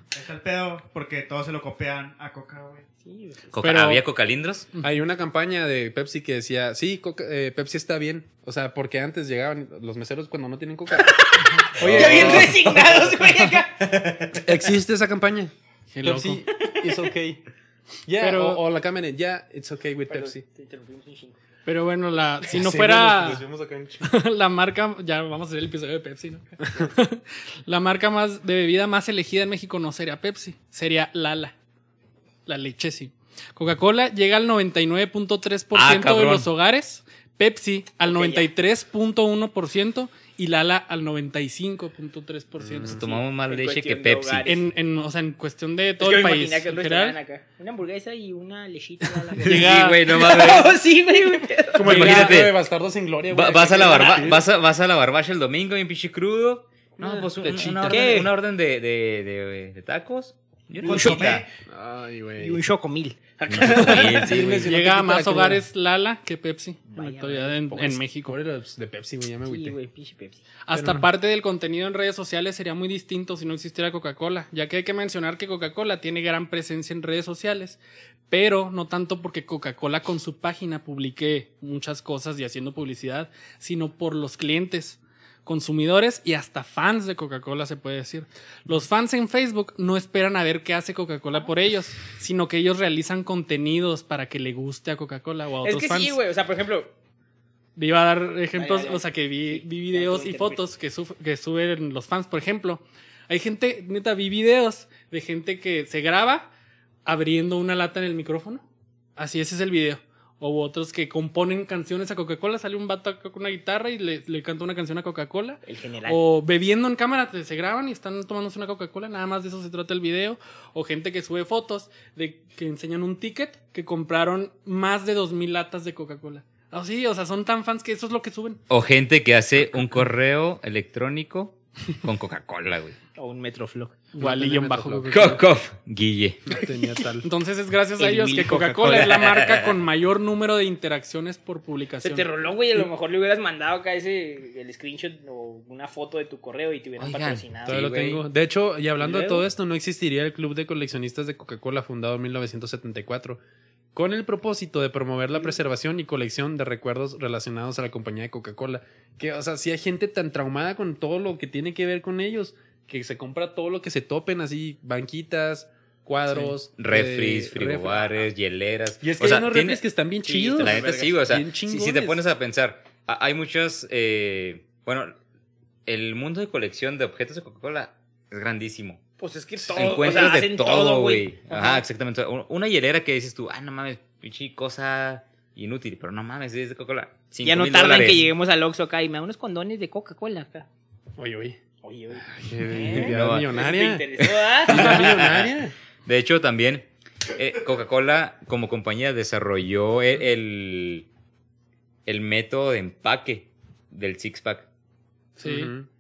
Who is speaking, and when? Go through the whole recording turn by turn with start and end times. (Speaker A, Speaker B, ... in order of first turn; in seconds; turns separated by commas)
Speaker A: 0.1-2.9, Speaker B: 3.0-3.5, Speaker C: 3.5-4.7, Speaker D: 3.6-4.0, Speaker E: 4.8-13.3, Speaker B: 11.0-14.1, Speaker C: 11.8-12.6, Speaker C: 14.0-14.3, Speaker E: 14.3-17.4, Speaker D: 15.9-16.4, Speaker E: 18.1-20.4, Speaker D: 18.2-18.6, Speaker B: 20.1-21.4, Speaker D: 21.7-23.4, Speaker E: 22.5-24.1, Speaker D: 24.0-31.5, Speaker D: 32.5-43.0, Speaker C: 35.7-36.5, Speaker B: 38.0-38.5, Speaker E: 42.6-43.0, Speaker C: 42.9-44.5, Speaker B: 43.0-44.7, Speaker D: 44.5-47.2, Speaker B: 46.0-52.1, Speaker D: 49.4-50.0, Speaker C: 49.4-50.8, Speaker E: 51.8-54.5, Speaker C: 51.8-52.6, Speaker D: 52.0-52.3, Speaker C: 53.3-61.4, Speaker B: 53.9-54.3, Speaker E: 57.0-58.2, Speaker B: 57.9-58.3, Speaker A: 60.8-61.5, Speaker B: 60.8-61.4, Speaker E: 61.7-62.6, Speaker B: 62.4-64.3, Speaker C: 63.5-64.7, Speaker E: 63.6-65.6, Speaker D: 64.6-68.4, Speaker B: 66.9-67.6, Speaker E: 67.7-69.8, Speaker B: 69.5-70.5, Speaker D: 70.7-96.2, Speaker E: 70.7-71.1, Speaker B: 95.6-96.9, Speaker D: 97.8-106.5, Speaker B: 98.5-100.6, Speaker D: 107.0-108.6, Speaker D: 109.2-128.6, Speaker B: 115.7-116.2, Speaker C: 128.7-133.0, Speaker B: 133.2-134.0, Speaker D: 134.1-135.3, Speaker E: 134.2-135.4, Speaker C: 135.1-136.4, Speaker E: 136.5-137.3, Speaker D: 137.2-142.3, Speaker B: 138.0-139.2, Speaker C: 139.0-139.7, Speaker B: 142.0-147.8, Speaker C: 147.0-148.2, Speaker E: 147.7-153.4, Speaker B: 149.0-149.5, Speaker E: 153.9-168.2, Speaker C: 166.7-169.8, Speaker E: 169.0-172.2, Speaker B: 170.2-171.2, Speaker C: 170.6-175.2, Speaker C: 175.9-179.0, Speaker B: 179.2-181.8, Speaker C: 179.7-188.3, Speaker B: 187.4-190.7, Speaker E: 191.2-191.6, Speaker B: 191.8-195.1, Speaker E: 192.2-195.7, Speaker C: 192.8-193.5, Speaker C: 194.7-195.5, Speaker C: 196.1-201.1, Speaker C: 202.1-204.7, Speaker D: 205.4-205.7, Speaker E: 205.4-205.9